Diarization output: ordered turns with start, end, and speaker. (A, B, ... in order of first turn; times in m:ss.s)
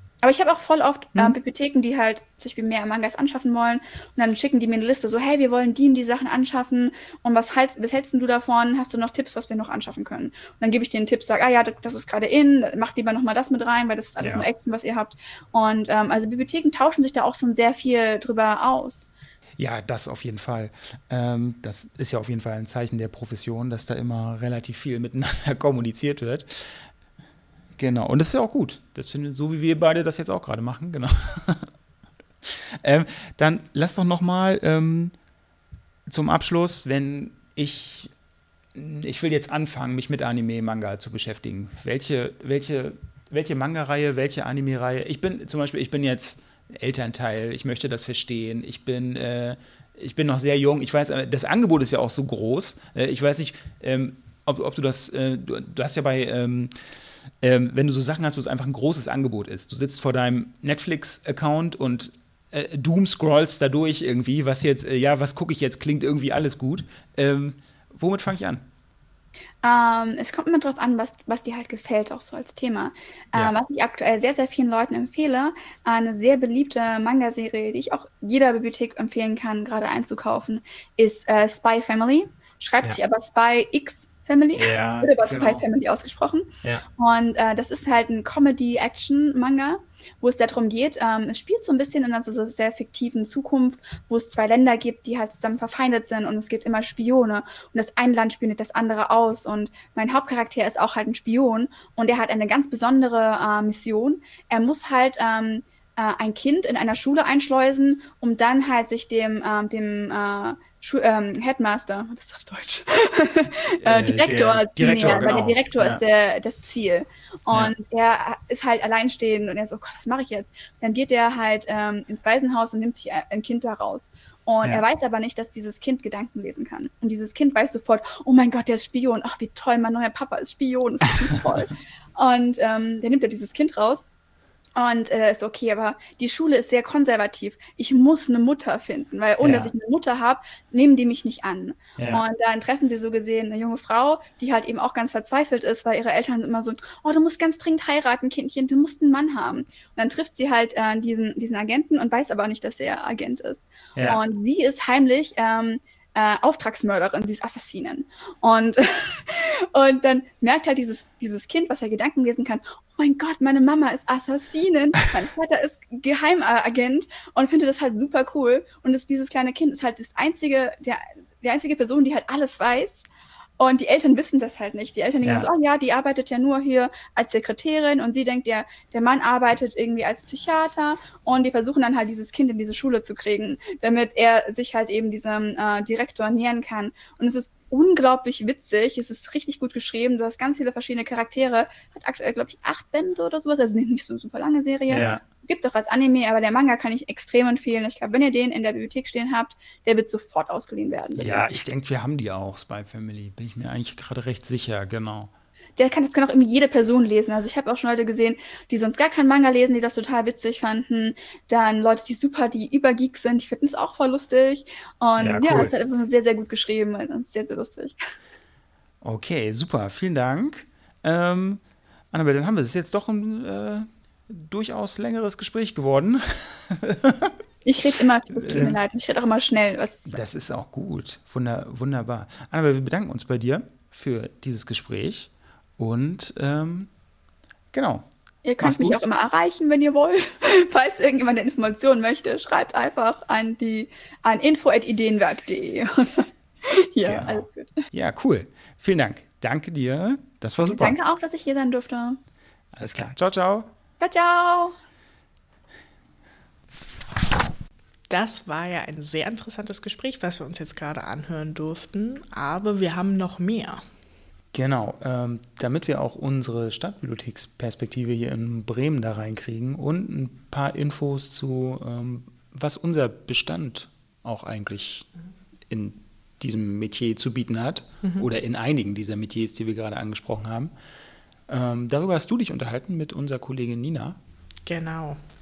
0:00.2-0:19.1 A
0:14.2-0:14.5 B
0:19.6-0:26.9 B
0:27.8-0:31.7 B
0:32.4-0:35.1 B
0:36.1-0:38.1 B
0:38.7-0:56.7 B
0:57.4-1:08.6 B
1:09.6-2:14.1 A
1:24.6-1:25.6 B
1:53.8-1:56.0 B
2:14.8-2:53.1 A
2:19.4-2:19.7 B
2:22.0-2:22.2 B
2:34.0-2:34.2 B
2:53.6-3:21.6 A
2:55.2-2:55.5 B
3:14.9-3:15.2 B
3:21.2-3:25.3 B
3:25.8-3:38.0 A
3:35.2-3:35.7 B
3:39.0-3:41.6 B
3:42.1-3:47.3 B
3:47.6-3:50.2 A
3:48.4-3:48.8 B
3:50.1-3:56.9 B
3:57.7-3:58.1 B
3:58.4-4:07.8 A
3:58.6-3:59.1 B
4:07.0-4:11.0 B
4:10.6-4:12.2 A
4:12.8-4:13.7 B
4:14.0-4:14.8 A
4:18.1-4:23.8 C
4:24.5-4:35.1 B
4:35.7-4:40.7 B
4:38.0-4:38.3 C
4:41.5-4:44.2 B
4:44.7-4:45.2 C